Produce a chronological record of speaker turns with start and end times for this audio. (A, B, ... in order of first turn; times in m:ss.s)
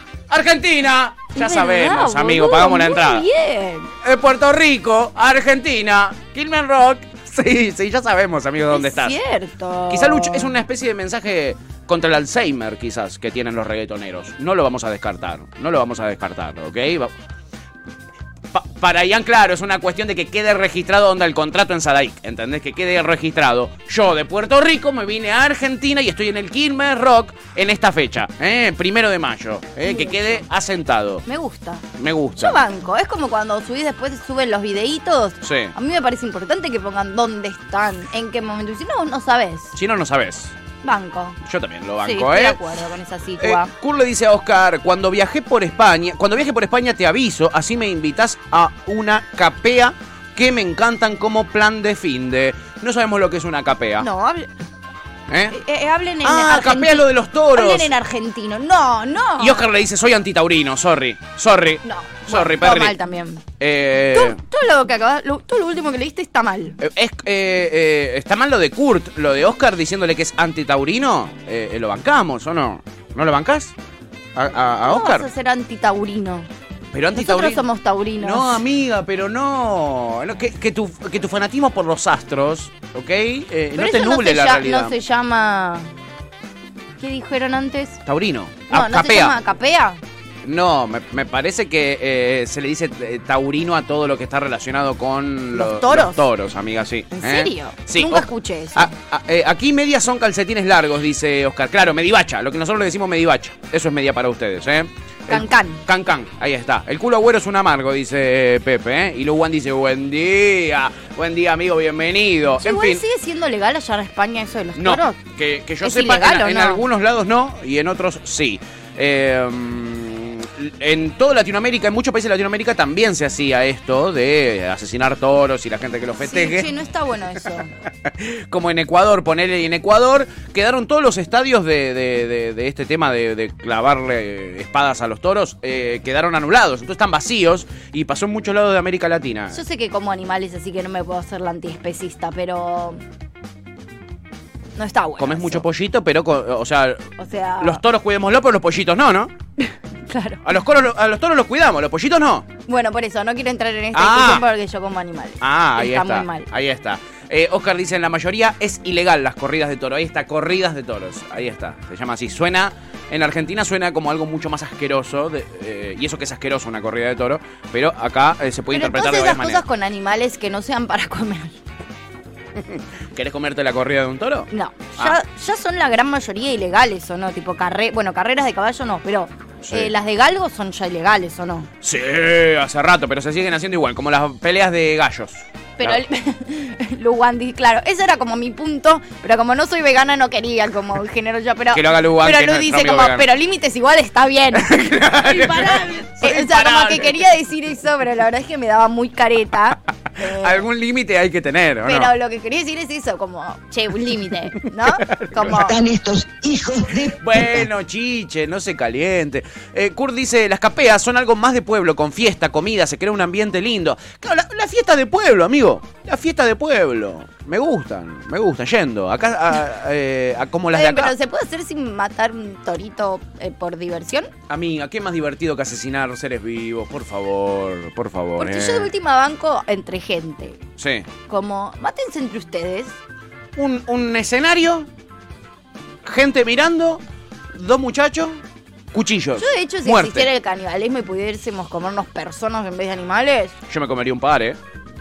0:00.3-0:03.3 A
0:01.3-0:03.9 B
0:04.0-0:09.2 A
0:08.7-0:10.5 B
0:09.9-0:17.1 A
0:18.5-0:31.2 A
0:29.8-0:30.4 B
0:31.3-0:31.8 B
0:32.0-0:32.6 A
0:32.4-0:39.7 B
0:35.4-0:35.7 A
0:39.7-0:40.5 A
0:40.8-0:41.4 B
0:41.4-0:42.6 A
0:42.0-0:43.7 B
0:43.4-0:54.1 A
0:54.0-0:54.5 B
0:55.3-0:55.6 A
0:55.5-0:59.6 B
0:56.2-0:57.9 A
0:59.4-1:03.0 A
1:01.8-1:03.4 B
1:03.6-1:04.4 A
1:04.1-1:06.8 B
1:06.8-1:13.7 A
1:14.3-1:15.3 A
1:14.8-1:16.5 B
1:16.9-1:17.7 A
1:17.1-1:18.6 B
1:18.2-1:24.9 A
1:23.7-1:25.9 B
1:27.0-1:28.0 B
1:28.0-1:29.3 A
1:28.7-1:30.0 B
1:30.4-1:53.0 A
1:35.5-1:36.2 B
1:37.1-1:38.9 B
1:45.3-1:45.8 B
1:52.6-1:55.2 B
1:54.8-2:06.7 A
1:55.8-1:56.8 B
2:06.2-2:07.7 B
2:08.0-2:19.6 A
2:19.5-2:23.0 B
2:24.8-2:25.6 B
2:25.2-2:29.3 A
2:27.2-2:27.8 B
2:29.6-2:30.4 B
2:30.4-2:32.5 A
2:32.7-2:36.5 B
2:33.9-2:34.4 A
2:35.4-2:49.6 A
2:48.7-2:51.6 B
2:52.5-2:55.2 A
2:54.5-3:01.7 B
2:59.6-2:59.9 A
3:01.8-3:06.0 A
3:05.8-3:20.7 B
3:11.7-3:13.3 A
3:14.5-3:17.2 A
3:20.2-3:22.1 A
3:21.8-3:25.8 B
3:24.9-3:25.6 A
3:25.5-3:27.7 C
3:27.2-3:41.1 A
3:40.7-3:44.3 B
3:44.5-3:48.9 A
3:48.4-3:50.6 B
3:50.8-3:51.1 A
3:51.3-3:52.9 B
3:53.5-3:54.9 A
3:56.0-3:58.4 A
3:58.9-4:00.3 A
3:59.4-4:03.5 B
4:03.7-4:04.6 A